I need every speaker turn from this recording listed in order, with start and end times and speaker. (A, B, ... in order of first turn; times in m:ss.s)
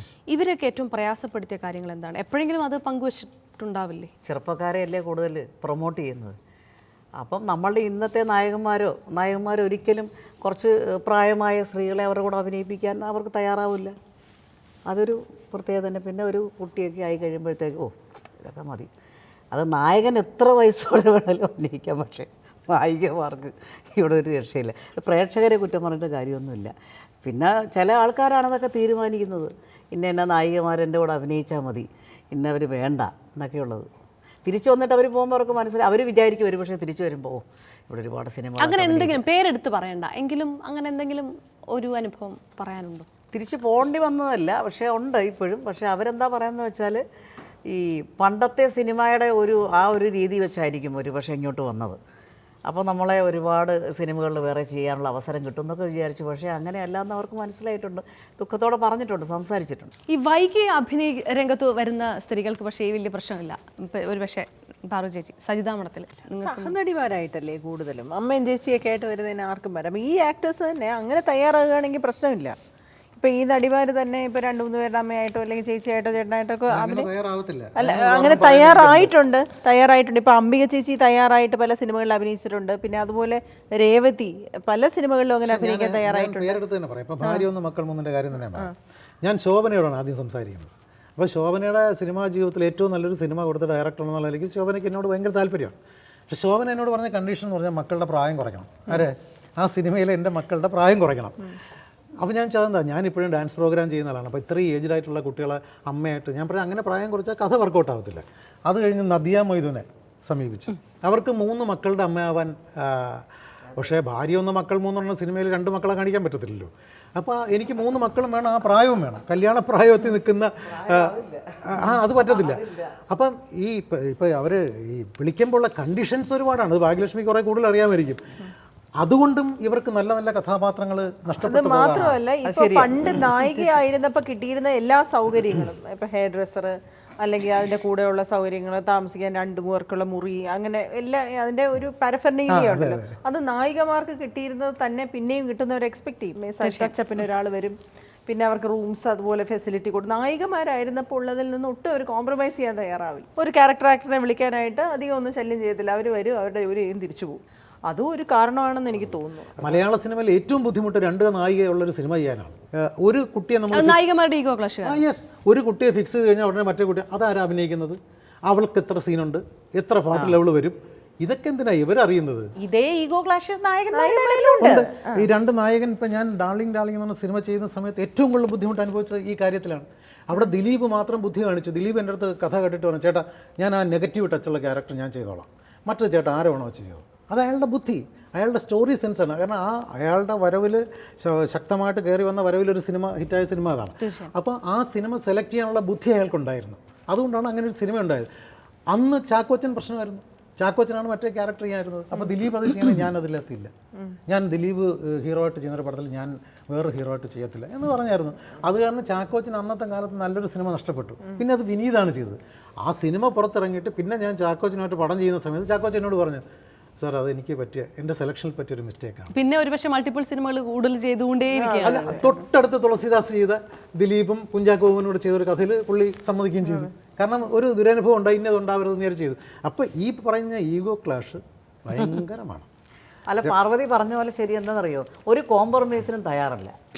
0:00.3-0:04.1 A
0:04.3-0:06.4 B
0:07.2-0:13.9 B
0:14.9-0:18.9 B
0:19.5-0:26.7 B
0:27.2-0:33.9 B
0:34.4-0:39.2 B
0:38.6-0:43.1 A
0:43.3-0:47.0 B
0:47.7-0:52.0 B
0:52.7-0:59.9 B
1:00.1-1:06.7 A
1:06.4-1:12.6 C
1:13.2-1:17.1 C
1:16.7-1:19.1 D
1:17.8-1:26.6 C
1:25.5-1:35.8 D
1:36.3-1:41.5 D
1:42.2-2:08.2 D
2:09.0-2:12.2 D
2:11.4-2:27.8 C
2:12.5-2:12.8 B
2:22.5-2:23.1 D
2:26.6-2:26.9 A
2:28.3-2:39.8 C
2:39.6-2:44.1 D
2:43.7-2:45.0 A
2:44.8-2:52.5 D
2:52.6-2:54.8 E
2:53.9-2:55.3 C
2:54.6-3:18.3 D
3:18.9-3:23.7 D
3:24.3-3:36.4 D
3:37.0-3:39.3 D
3:39.3-3:42.2 A
3:41.5-3:42.3 C
3:41.8-3:52.7 D
3:53.3-3:56.7 B